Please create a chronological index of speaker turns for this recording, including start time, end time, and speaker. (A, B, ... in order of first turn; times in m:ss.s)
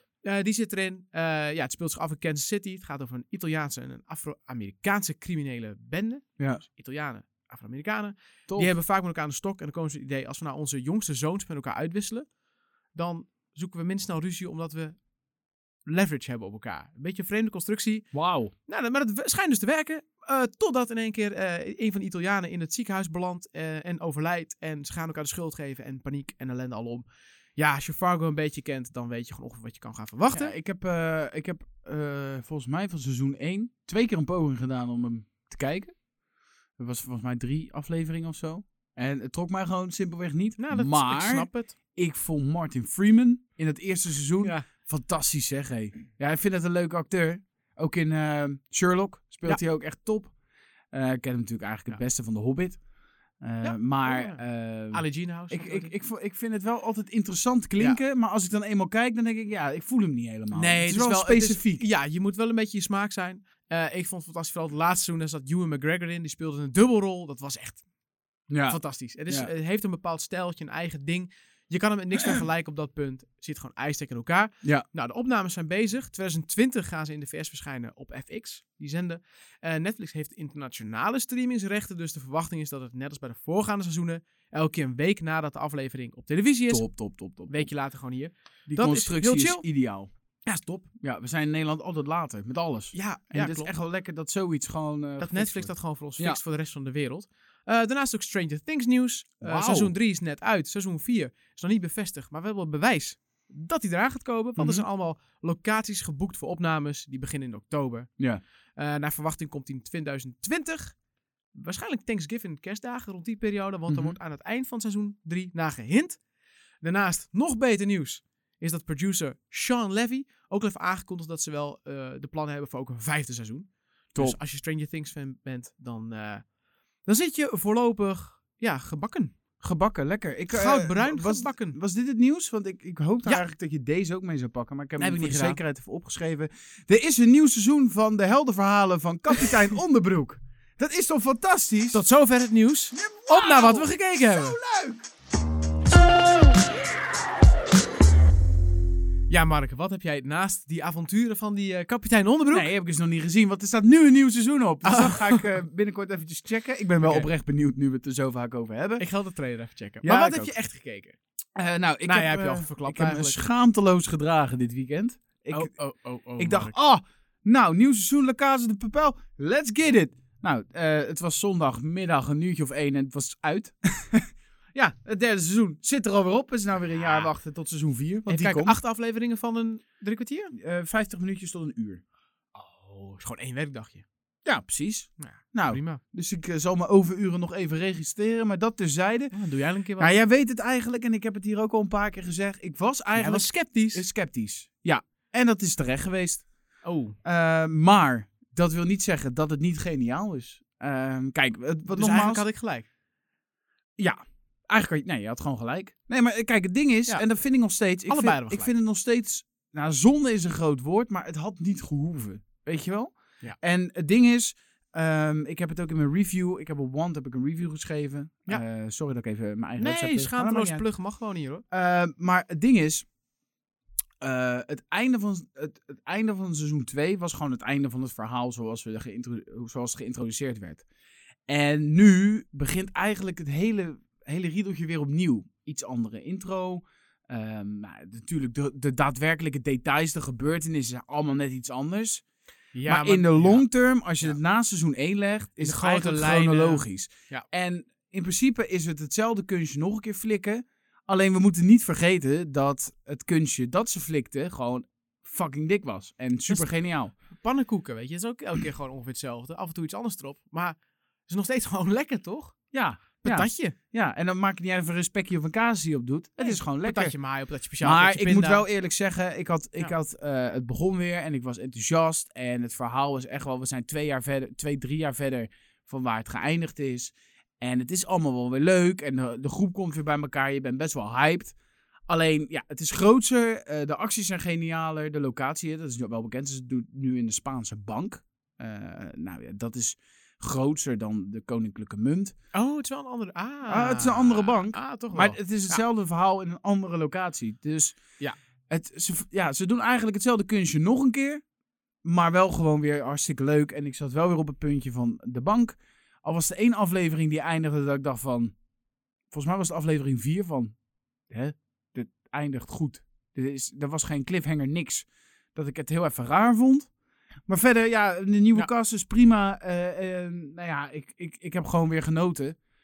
0:00.2-0:12.2 A
0:12.9-0:15.0 A
0:15.9-0:18.1 A
0:18.1-0:18.5 B
0:18.6-0:30.5 A
0:30.3-0:35.9 B
0:36.8-0:50.3 B
0:40.6-0:41.7 A
0:50.9-0:52.8 B
0:53.4-1:01.9 B
0:53.6-0:55.9 A
1:00.5-1:07.8 A
1:08.5-1:09.5 B
1:08.7-1:26.9 A
1:26.7-1:27.7 B
1:27.5-1:29.6 A
1:28.7-1:30.1 B
1:30.4-1:30.9 A
1:31.0-1:36.4 B
1:32.9-1:33.7 A
1:35.2-1:48.1 A
1:39.4-1:39.9 B
1:44.6-1:44.8 B
1:48.8-1:51.0 A
1:51.5-1:56.2 A
1:53.9-1:54.2 B
1:56.8-2:06.4 A
2:07.0-2:09.3 A
2:09.6-2:22.0 B
2:10.5-2:11.8 A
2:15.0-2:15.6 A
2:21.9-2:24.6 A
2:22.9-2:25.0 B
2:29.3-2:32.7 A
2:32.5-2:39.0 B
2:34.8-2:35.5 A
2:37.0-2:37.3 A
2:39.0-2:41.2 A
2:40.0-2:40.6 B
2:41.6-2:45.7 B
2:42.0-2:43.4 A
2:45.5-2:46.7 A
2:46.4-2:58.8 B
2:56.8-2:57.3 A
2:58.3-3:00.5 A
3:00.5-3:02.0 B
3:02.5-3:04.0 A
3:04.4-3:09.3 B
3:05.2-3:06.0 A
3:09.3-3:10.2 A
3:10.0-3:16.5 B
3:13.1-3:14.0 A
3:16.8-3:17.2 A
3:17.2-3:22.4 B
3:21.9-3:22.9 A
3:24.0-3:40.8 B
3:28.1-3:28.7 A
3:39.8-3:41.6 A
3:41.7-3:43.0 B
3:44.2-3:50.8 B
3:51.5-4:02.2 B
4:02.8-4:03.6 A
4:02.9-4:17.1 B
4:05.6-4:07.5 A
4:17.4-4:22.5 A
4:22.7-4:27.1 B
4:23.2-4:23.8 A
4:26.4-4:28.6 A
4:27.8-4:41.5 B
4:42.1-4:52.4 B
4:52.5-4:55.8 A
4:53.7-4:58.0 B
4:58.7-5:01.4 B
5:02.0-5:08.5 B
5:09.3-5:10.7 B
5:11.3-5:16.9 B
5:17.5-5:22.6 B